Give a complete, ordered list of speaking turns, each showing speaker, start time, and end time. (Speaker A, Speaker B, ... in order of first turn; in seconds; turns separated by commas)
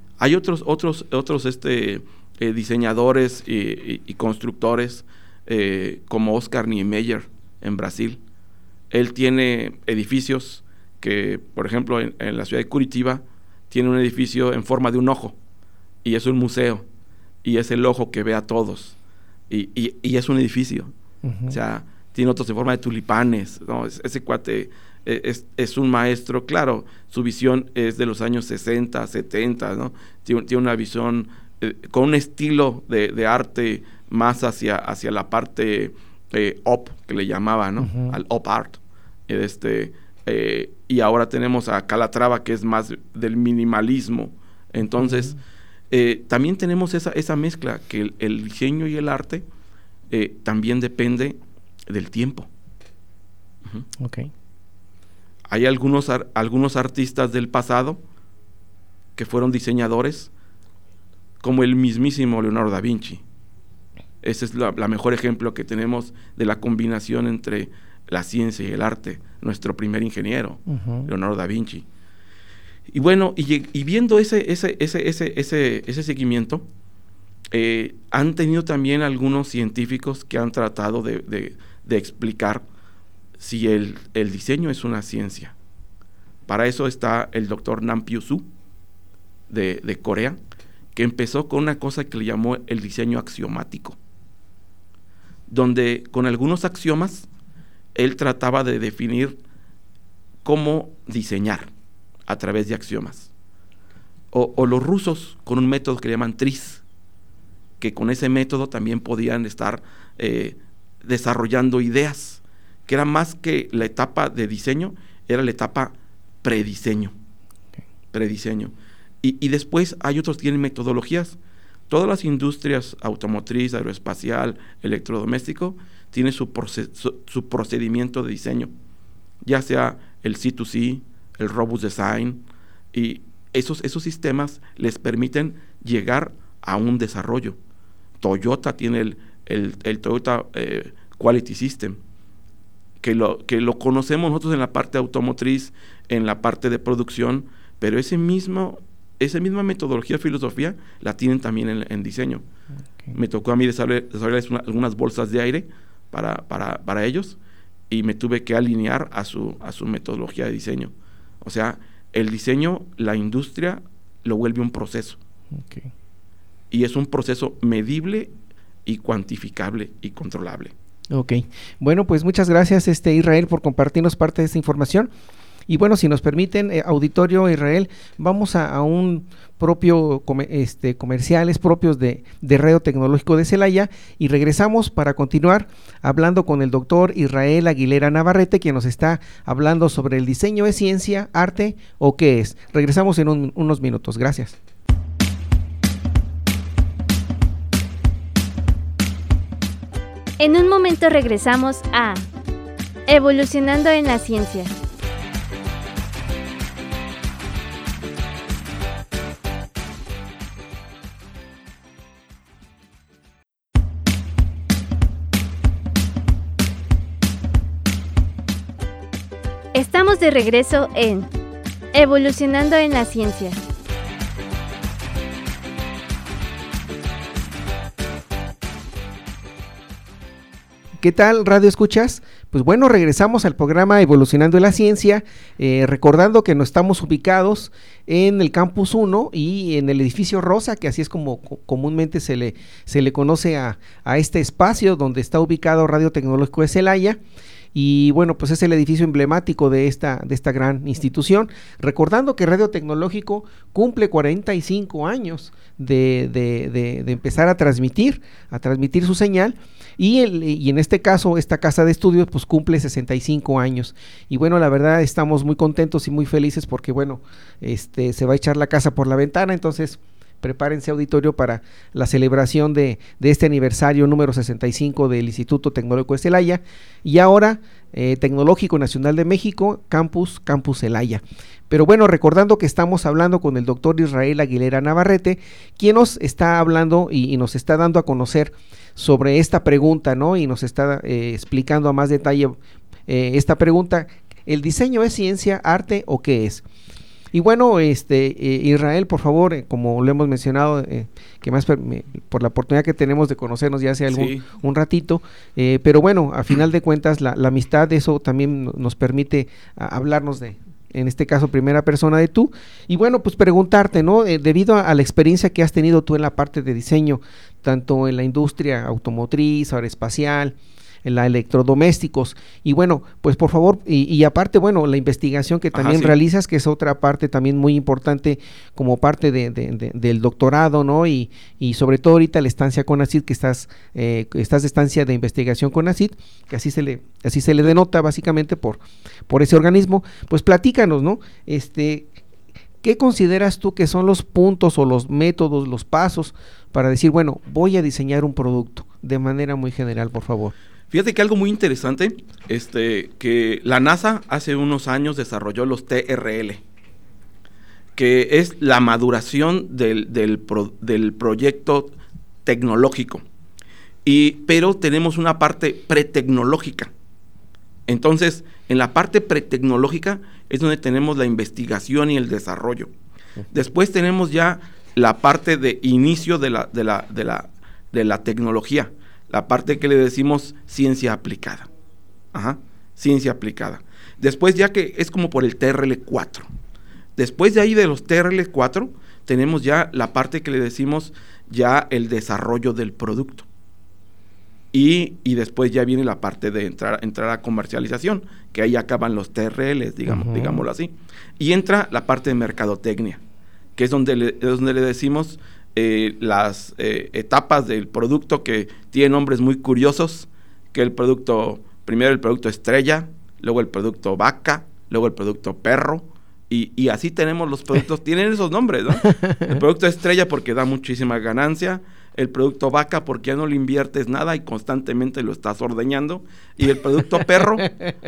Speaker A: 0.2-8.2, Speaker A: 8.9-15.3, Speaker A: 16.0-16.8, Speaker A: 17.4-18.9, Speaker A: 19.5-20.9, Speaker B: 21.2-21.6, Speaker A: 21.5-45.3, Speaker B: 37.8-38.2, Speaker B: 45.0-45.4, Speaker A: 45.9-49.4, Speaker A: 50.1-52.5, Speaker B: 54.0-54.3, Speaker A: 55.5-58.0, Speaker A: 59.1-60.3, Speaker A: 61.4-63.2, Speaker A: 64.2-71.8, Speaker B: 70.7-71.1, Speaker A: 72.9-76.6, Speaker A: 77.5-82.6, Speaker A: 83.4-85.5, Speaker A: 86.5-88.5, Speaker A: 89.5-90.4, Speaker A: 90.9-94.0, Speaker A: 95.5-97.3, Speaker A: 97.9-99.4, Speaker A: 100.4-101.7, Speaker A: 102.3-103.3, Speaker A: 104.3-106.8, Speaker A: 107.8-117.1, Speaker A: 118.1-121.4, Speaker A: 121.9-128.7, Speaker A: 129.4-137.6, Speaker A: 138.2-142.0, Speaker A: 143.0-152.4, Speaker A: 153.1-157.4, Speaker A: 157.9-165.2, Speaker B: 165.5-165.9, Speaker A: 166.7-168.3, Speaker A: 168.8-170.7, Speaker B: 171.1-175.1, Speaker B: 175.7-194.6, Speaker C: 200.4-202.2, Speaker C: 203.1-204.7, Speaker C: 219.7-221.3, Speaker C: 221.9-223.6, Speaker B: 231.0-247.2, Speaker B: 247.7-296.6, Speaker B: 297.3-342.1, Speaker A: 304.1-304.4, Speaker A: 325.7-326.1, Speaker B: 342.8-350.5, Speaker A: 350.9-356.6, Speaker A: 357.9-363.2, Speaker A: 364.0-366.9, Speaker A: 367.9-372.9, Speaker A: 373.5-381.7, Speaker A: 382.3-386.5, Speaker A: 387.1-393.4, Speaker A: 394.7-403.2, Speaker B: 400.1-400.6, Speaker A: 403.8-427.7, Speaker B: 419.1-419.4, Speaker B: 427.2-428.0